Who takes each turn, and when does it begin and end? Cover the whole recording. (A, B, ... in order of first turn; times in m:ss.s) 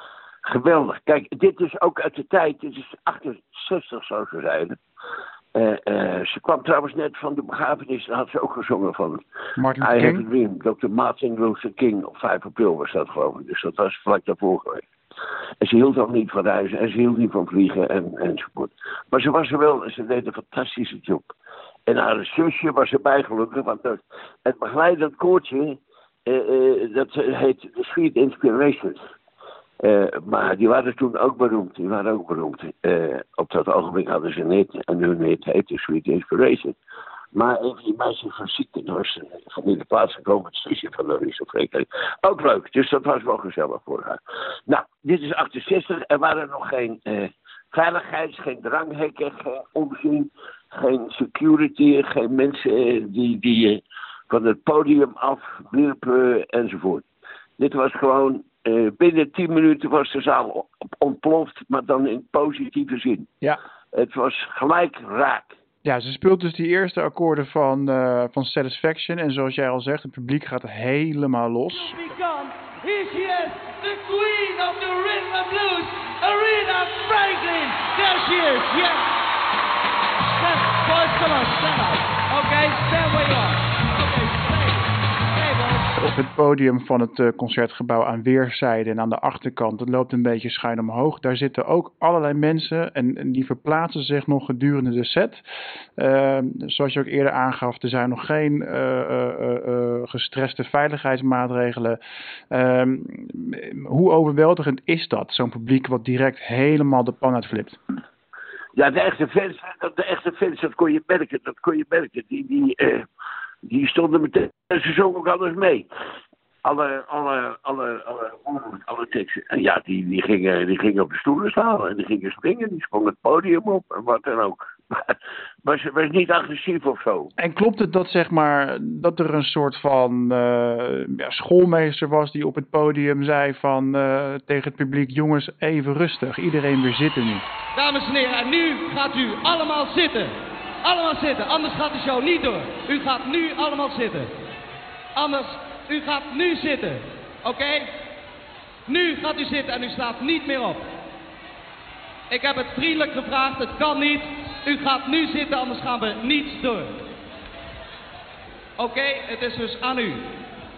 0:00.4-0:04.7 A
0:05.5-0:09.2 A
0:09.6-0:10.2 B
0:09.8-0:14.8 A
0:15.6-0:21.2 A
0:21.9-0:29.0 A
0:29.8-0:36.7 A
0:37.3-0:57.0 A
0:57.6-1:03.3 A
1:03.9-1:05.5 A
1:05.8-1:12.1 B
1:11.7-1:19.1 C
1:20.4-1:25.9 C
1:26.0-1:35.4 B
1:36.0-1:42.0 B
1:42.5-1:47.8 B
1:48.8-1:53.0 A
1:53.6-1:55.9 A
1:56.6-2:05.1 A
2:05.6-2:07.3 A
2:07.4-2:17.4 B
2:17.7-2:24.3 C
2:25.1-2:27.9 C
2:28.9-2:30.9 C
2:32.3-2:37.1 C
2:38.8-2:40.3 C